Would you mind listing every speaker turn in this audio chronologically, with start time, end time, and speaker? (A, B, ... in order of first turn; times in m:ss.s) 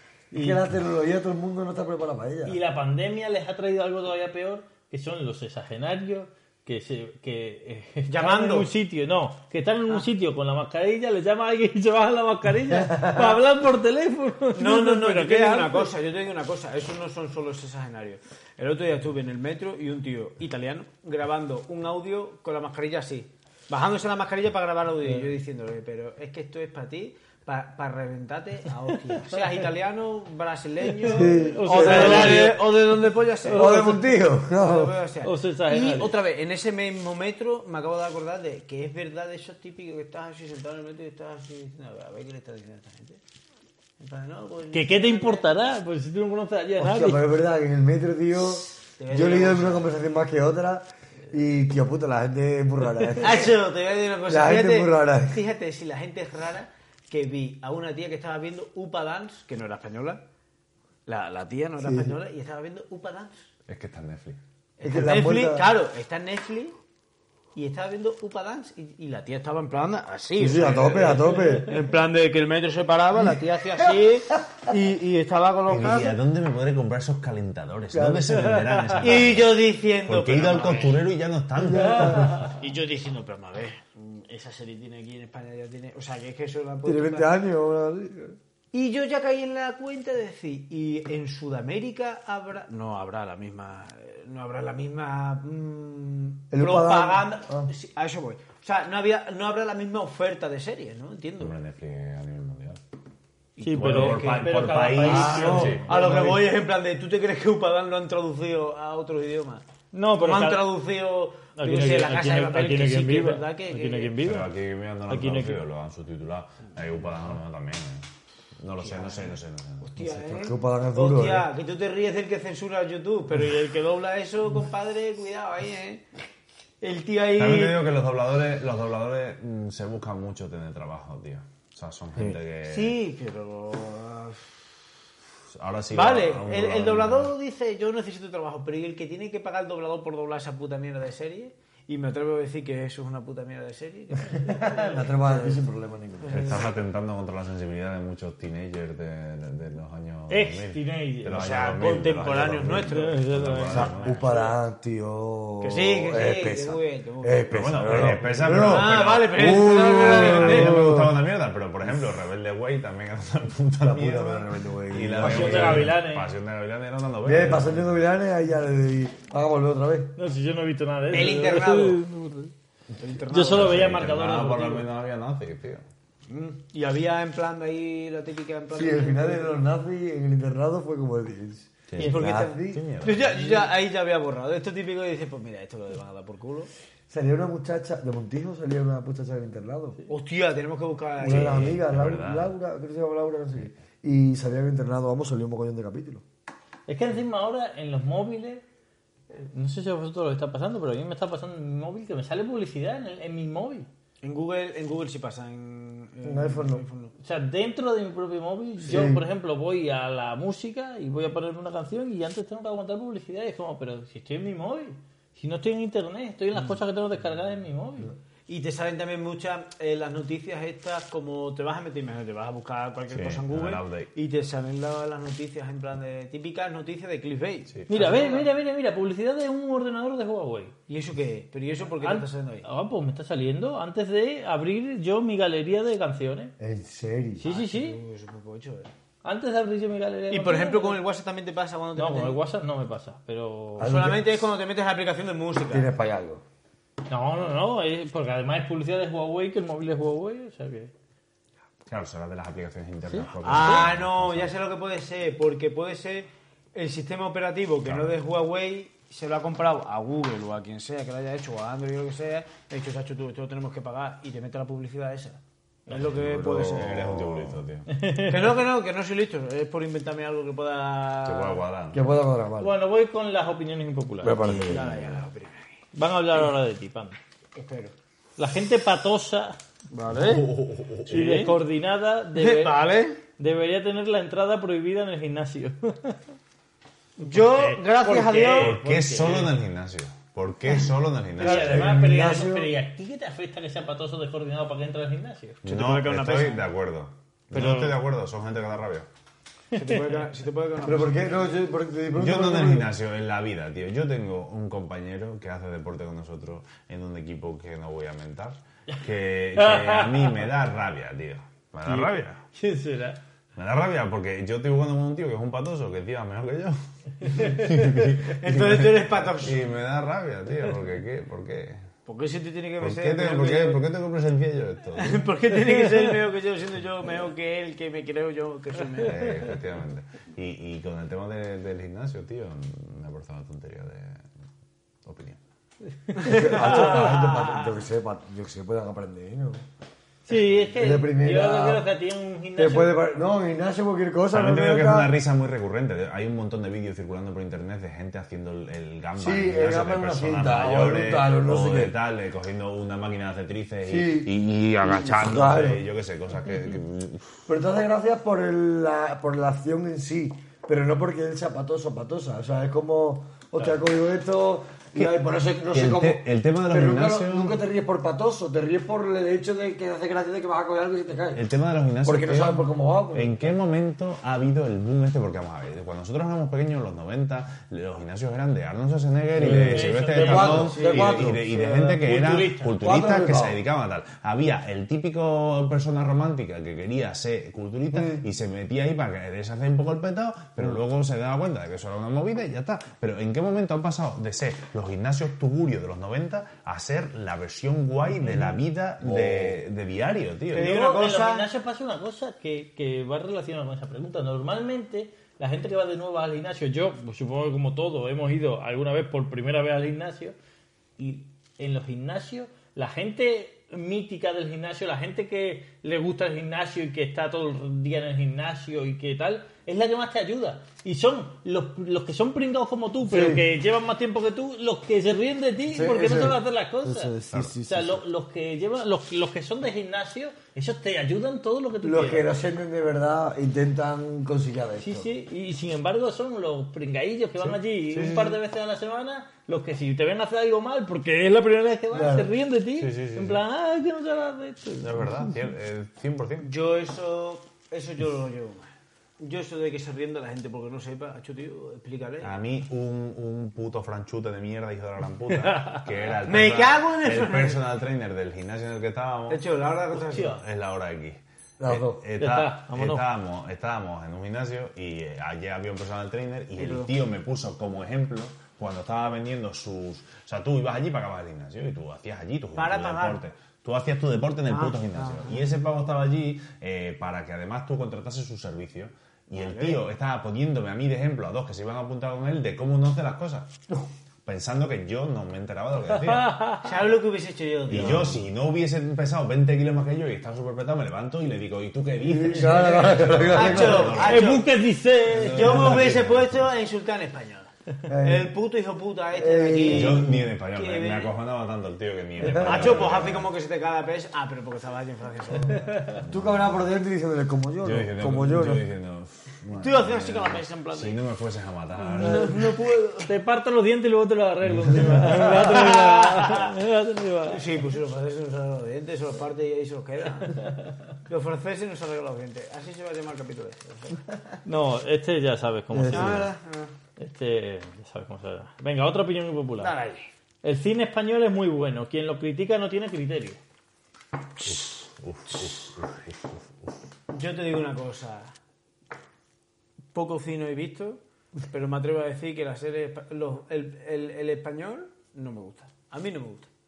0:00.3-0:00.6 A
0:00.3-0:02.6 B
0:02.4-0:15.9 A
0:08.1-0:08.7 C
0:14.5-0:33.8 C
0:31.0-0:32.7 A
0:31.1-0:32.5 B
0:33.4-0:34.1 A
0:33.5-0:35.0 B
0:34.5-0:43.2 C
0:35.2-0:36.1 A
0:44.0-0:45.5 C
0:44.7-0:47.2 A
0:46.8-0:53.5 B
0:49.0-0:49.9 C
0:53.2-1:00.2 C
0:54.3-0:55.4 B
1:01.1-1:03.5 C
1:01.8-1:02.1 B
1:03.7-1:04.4 D
1:04.8-1:06.7 C
1:04.8-1:05.7 B
1:07.5-1:16.2 C
1:10.4-1:11.7 B
1:15.7-1:22.4 D
1:17.9-1:19.0 B
1:19.0-1:21.0 C
1:21.6-1:22.4 B
1:22.3-1:27.3 C
1:26.8-1:28.4 B
1:28.7-1:41.5 C
1:36.5-1:37.7 B
1:41.4-1:42.8 D
1:43.6-1:44.6 C
1:43.6-1:45.9 A
1:43.7-1:46.4 D
1:45.0-1:45.8 B
1:45.8-1:49.6 C
1:49.9-1:50.7 A
1:50.2-1:54.1 C
1:51.6-1:54.5 A
1:54.2-1:58.1 D
1:55.1-1:55.6 A
1:58.6-2:00.1 D
1:58.8-2:06.0 C
2:00.1-2:01.5 B
2:06.8-2:07.8 C
2:07.3-2:13.0 D
2:12.6-2:14.8 C
2:15.5-2:17.3 D
2:15.9-2:25.6 C
2:24.3-2:26.6 B
2:26.2-2:26.6 C
2:26.3-2:34.4 D
2:30.3-2:31.4 A
2:31.3-2:33.2 C
2:32.9-2:33.9 A
2:33.7-2:41.2 B
2:34.0-2:34.5 C
2:35.6-2:40.8 C
2:37.5-2:47.9 D
2:41.8-2:42.2 B
2:43.8-2:46.0 B
2:45.2-2:46.3 A
2:47.2-2:50.1 B
2:50.2-2:52.5 A
2:51.1-2:52.0 C
2:53.0-2:54.0 C
2:53.3-2:54.9 A
2:53.4-2:55.8 D
2:56.3-2:59.6 C
2:58.7-3:02.8 B
3:01.9-3:03.6 D
3:02.0-3:06.7 C
3:07.1-3:10.0 B
3:10.1-3:11.8 C
3:11.2-3:16.2 B
3:11.2-3:12.5 D
3:16.9-3:18.6 A
3:19.3-3:23.9 A
3:24.2-3:27.1 C
3:26.2-3:26.8 B
3:27.2-3:38.1 A
3:28.8-3:29.2 B
3:38.5-3:48.5 C
3:43.1-3:44.1 D
3:47.7-3:48.0 D
3:47.9-3:50.7 A
3:50.9-3:52.6 C
3:52.0-3:56.5 A
3:56.6-3:57.4 B
3:57.4-3:58.0 A
3:57.4-3:58.9 C
3:59.2-4:01.0 A
4:00.3-4:02.4 C
4:02.0-4:04.0 A
4:03.8-4:04.3 B
4:03.8-4:05.9 C
4:05.7-4:06.4 B
4:07.1-4:10.9 A
4:11.9-4:14.5 D
4:13.1-4:13.9 A
4:13.4-4:27.2 C
4:17.8-4:18.1 D
4:25.9-4:27.6 B
4:26.6-4:27.9 D
4:27.9-4:28.5 A
4:28.3-4:31.6 C
4:31.2-4:32.0 D
4:31.9-4:32.7 B
4:32.6-4:35.0 A
4:34.2-4:35.1 B
4:34.5-4:35.7 C
4:35.9-4:37.2 A
4:37.5-4:37.9 C
4:38.4-4:39.6 A
4:39.9-4:40.4 C
4:40.1-4:41.4 D
4:41.1-4:42.8 A
4:41.1-4:41.5 C
4:42.4-4:43.2 C
4:43.4-4:46.2 A
4:47.2-4:48.8 C
4:47.2-4:49.6 A
4:48.6-4:52.0 D
4:51.4-4:55.6 A
4:51.4-4:52.7 B
4:55.6-4:59.1 D
4:55.6-4:56.7 C
4:57.5-4:58.0 A
4:59.7-5:01.5 C
4:59.8-5:00.2 A
5:00.8-5:02.9 B
5:02.1-5:12.4 D
5:09.6-5:10.5 A
5:11.8-5:13.2 A
5:13.6-5:21.8 D
5:18.2-5:19.6 C
5:22.0-5:23.8 C
5:22.8-5:25.3 D
5:25.0-5:29.4 C
5:29.0-5:34.2 D
5:35.0-5:35.4 D
5:36.1-5:37.7 C
5:36.2-5:39.6 B
5:36.4-5:37.1 A
5:40.3-5:43.0 A
5:40.8-5:41.9 B
5:42.6-5:45.1 B
5:44.3-5:57.4 D
5:49.2-5:51.9 B
5:53.8-5:55.8 B
5:57.5-6:11.4 B
6:05.7-6:07.6 D
6:11.3-6:40.7 D
6:12.0-6:13.5 B
6:19.4-6:21.7 B
6:19.4-6:20.8 A
6:20.6-6:21.6 C
6:21.7-6:22.8 A
6:22.8-6:23.6 B
6:27.9-6:28.2 B
6:39.0-6:39.6 B
6:40.5-6:41.5 C
6:40.5-6:50.3 A
6:51.0-7:12.3 A
7:03.0-7:03.4 B
7:05.7-7:08.0 B
7:11.8-7:15.1 B
7:14.8-7:25.3 A
7:17.4-7:18.3 D
7:21.9-7:22.3 B
7:22.8-7:23.4 D
7:24.8-7:26.5 D
7:26.4-7:32.3 C
7:32.2-7:39.4 D
7:35.4-7:35.8 A
7:36.2-7:37.6 C
7:39.3-7:40.4 C
7:39.9-8:03.5 D
7:41.6-7:42.0 B
7:42.2-7:43.0 A
7:46.6-7:46.9 C
7:52.6-7:53.2 C
7:54.5-7:55.4 C
7:59.4-7:59.8 C
8:04.2-8:06.3 D
8:05.9-8:06.7 A
8:06.6-8:08.1 C
8:07.7-8:14.4 D
8:07.7-8:08.1 B
8:12.0-8:14.0 B
8:13.2-8:14.4 C
8:13.9-8:15.8 A
8:15.0-8:16.5 D
8:15.2-8:21.1 C
8:17.9-8:18.3 B
8:19.1-8:20.3 B
8:19.6-8:23.3 D
8:22.2-8:22.9 B
8:22.3-8:25.7 C
8:25.6-8:25.9 A
8:26.0-8:26.5 D
8:26.0-8:28.6 B
8:27.6-8:32.5 D
8:29.6-8:31.0 C
8:32.0-8:32.6 C
8:32.0-8:32.8 B
8:32.1-8:37.4 A
8:35.1-8:36.5 C
8:37.3-8:40.4 C
8:41.1-8:44.4 C
8:44.4-8:46.3 A
8:45.7-8:46.2 B
8:45.9-8:46.7 C
8:47.0-8:49.7 A
8:49.6-8:50.1 C
8:50.4-8:53.4 A
8:54.4-8:56.7 D
8:57.1-8:58.3 C
8:59.9-9:06.5 C